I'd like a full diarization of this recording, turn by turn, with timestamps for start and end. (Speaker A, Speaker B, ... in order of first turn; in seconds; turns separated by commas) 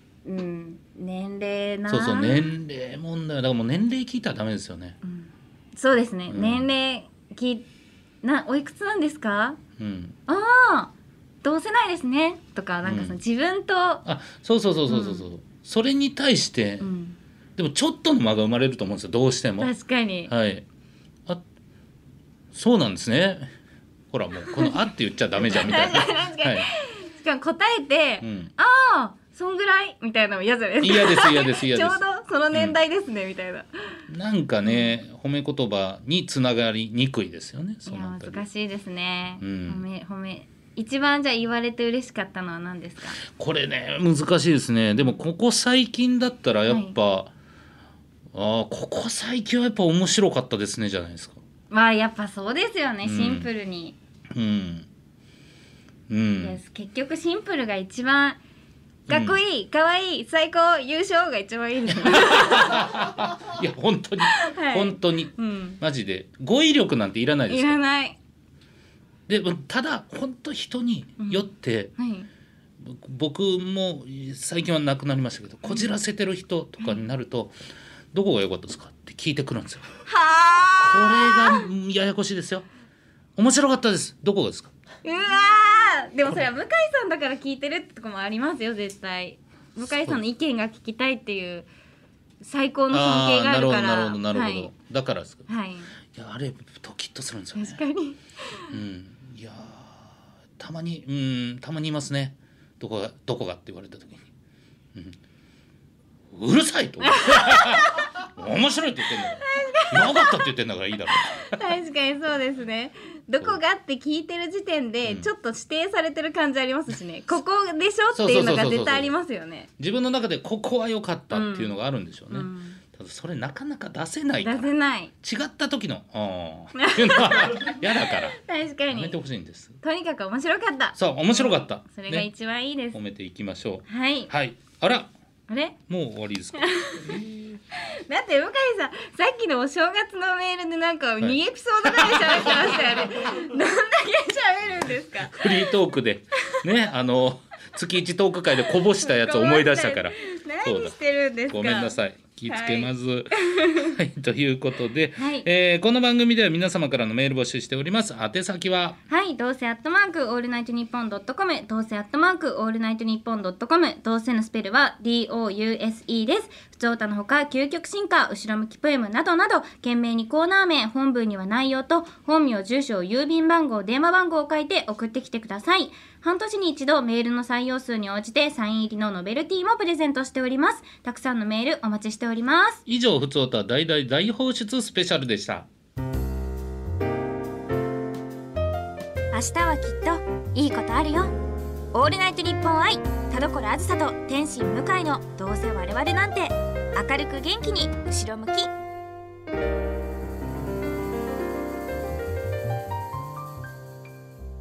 Speaker A: 0.2-2.5, Speaker B: 1.9-5.0, Speaker A: 5.0-7.7, Speaker B: 6.3-6.7, Speaker A: 8.2-9.6, Speaker B: 9.8-10.2, Speaker A: 10.3-10.9, Speaker A: 11.4-14.0, Speaker B: 12.8-13.2, Speaker B: 14.1-16.9, Speaker A: 14.9-15.2, Speaker A: 16.8-17.2, Speaker B: 17.6-19.7, Speaker A: 19.6-20.3, Speaker B: 20.3-20.6, Speaker B: 22.5-23.5, Speaker B: 24.1-26.7, Speaker A: 24.5-24.8, Speaker A: 25.4-34.0, Speaker B: 28.2-28.5, Speaker B: 30.8-32.0, Speaker B: 34.1-38.5, Speaker A: 34.6-35.0, Speaker A: 37.9-43.2, Speaker B: 39.4-39.8, Speaker B: 43.2-47.3, Speaker A: 46.7-47.0, Speaker B: 48.3-51.4, Speaker A: 51.7-54.0, Speaker B: 53.0-53.5, Speaker B: 54.3-54.9, Speaker B: 56.1-56.6, Speaker A: 56.4-58.4, Speaker B: 59.1-59.4, Speaker A: 59.1-63.0, Speaker B: 61.9-67.8, Speaker A: 64.2-65.8, Speaker A: 67.5-68.2, Speaker B: 69.3-71.9, Speaker A: 71.2-71.5, Speaker A: 72.0-72.3, Speaker B: 72.8-77.5, Speaker A: 75.7-75.9, Speaker B: 78.1-79.9, Speaker A: 80.1-81.7, Speaker B: 80.8-82.7, Speaker B: 83.4-84.7, Speaker A: 85.0-91.7, Speaker B: 89.8-90.2, Speaker A: 92.4-94.7, Speaker B: 92.9-95.5, Speaker A: 95.5-95.9, Speaker B: 96.1-97.8, Speaker A: 97.5-98.7, Speaker B: 98.7-104.3, Speaker B: 106.3-111.6, Speaker A: 107.0-108.1, Speaker A: 109.4-110.5, Speaker A: 111.3-119.7, Speaker B: 115.0-115.3, Speaker B: 118.1-119.1, Speaker B: 119.8-124.7, Speaker A: 121.3-121.8, Speaker A: 122.3-122.8, Speaker A: 124.4-125.1, Speaker B: 125.2-128.4, Speaker A: 126.8-129.2, Speaker B: 128.9-129.8, Speaker A: 129.8-133.0, Speaker B: 130.9-132.3, Speaker B: 132.9-135.1, Speaker A: 133.9-134.3, Speaker A: 135.5-135.8, Speaker B: 135.9-137.6, Speaker A: 136.6-137.2, Speaker A: 137.7-145.7, Speaker B: 141.2-142.9, Speaker B: 145.3-151.0, Speaker A: 148.9-154.0, Speaker B: 151.5-159.0, Speaker A: 155.2-155.5, Speaker A: 159.1-182.8, Speaker B: 182.9-185.7, Speaker A: 189.3-191.3, Speaker A: 191.9-198.7